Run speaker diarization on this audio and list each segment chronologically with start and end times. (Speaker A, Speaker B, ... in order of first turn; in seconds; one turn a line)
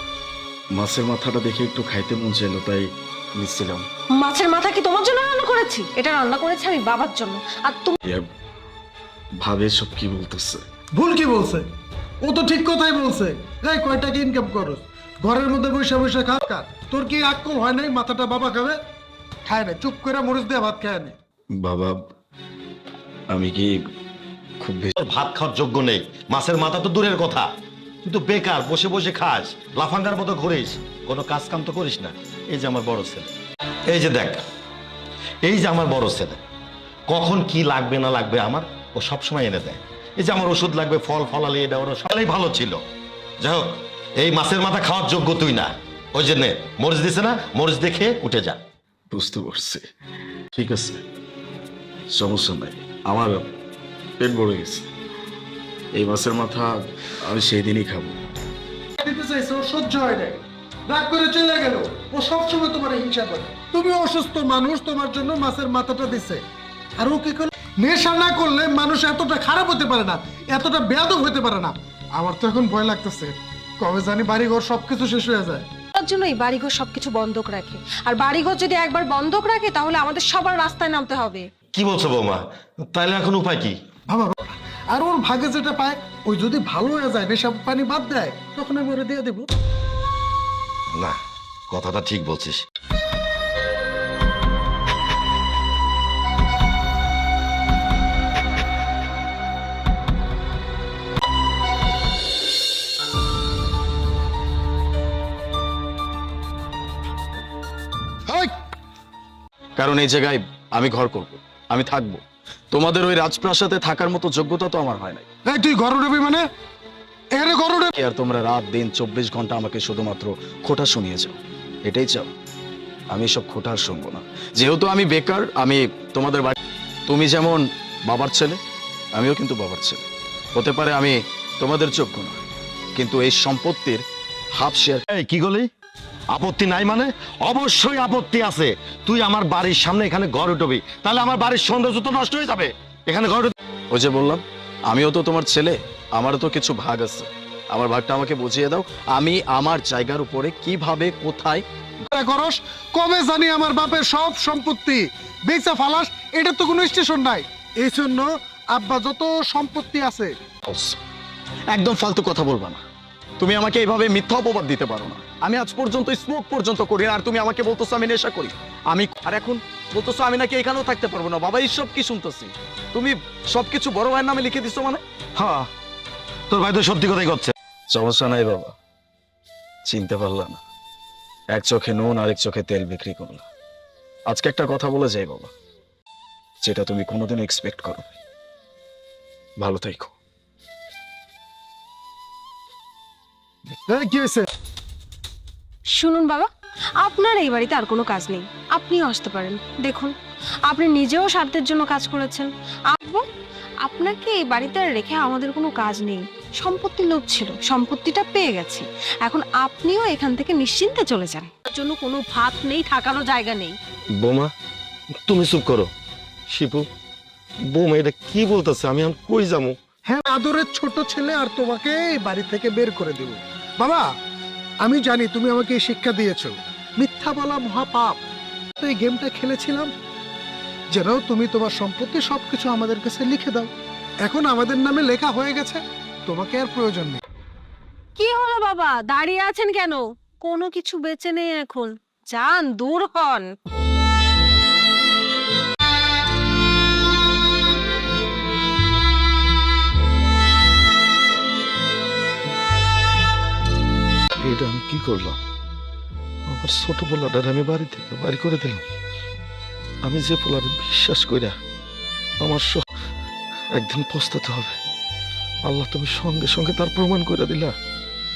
Speaker A: 0.7-3.9
Speaker B: 4.2-8.0
Speaker A: 9.4-10.6
Speaker C: 10.9-11.7
Speaker C: 12.2-18.8
Speaker C: 19.4-21.1
Speaker A: 21.5-22.1
Speaker A: 23.3-23.9
Speaker A: 24.6-24.9
Speaker D: 24.9-27.5
Speaker D: 28.0-33.3
Speaker D: 33.9-34.4
Speaker D: 35.4-36.4
Speaker D: 37.1-42.8
Speaker D: 43.4-48.6
Speaker A: 49.1-49.8
Speaker A: 50.5-51.0
Speaker A: 52.1-53.5
Speaker A: 54.2-54.9
Speaker A: 55.9-58.2
Speaker C: 59.0-66.4
Speaker C: 67.0-75.7
Speaker B: 75.9-81.5
Speaker D: 81.7-83.8
Speaker C: 84.1-89.5
Speaker D: 91.7-92.6
Speaker A: 109.8-115.2
Speaker C: 115.5-116.4
Speaker C: 117.3-117.9
Speaker A: 117.9-122.3
Speaker A: 123.1-126.5
Speaker A: 127.1-128.6
Speaker A: 129.1-132.4
Speaker A: 132.9-134.0
Speaker A: 134.5-135.0
Speaker D: 135.1-135.7
Speaker D: 136.3-143.5
Speaker A: 143.9-151.6
Speaker C: 152.1-160.3
Speaker A: 160.7-161.0
Speaker A: 161.7-162.8
Speaker A: 163.4-175.0
Speaker D: 175.3-175.7
Speaker D: 176.5-177.5
Speaker A: 177.9-178.7
Speaker A: 179.8-180.6
Speaker A: 181.5-183.5
Speaker A: 184.3-185.5
Speaker A: 186.6-188.1
Speaker A: 189.6-190.1
Speaker C: 193.9-194.5
Speaker B: 195.9-200.1
Speaker B: 200.7-203.2
Speaker B: 203.8-213.8
Speaker D: 214.2-214.5
Speaker D: 215.2-215.9
Speaker D: 216.5-216.8
Speaker D: 217.7-219.8
Speaker C: 220.1-224.1
Speaker C: 224.8-228.2
Speaker C: 228.8-229.9
Speaker C: 230.9-233.7
Speaker C: 234.2-237.2
Speaker B: 238.2-243.5
Speaker D: 254.4-255.4
Speaker D: 256.5-258.8
Speaker D: 260.0-261.6
Speaker D: 262.4-262.8
Speaker D: 263.7-264.8
Speaker D: 265.6-267.7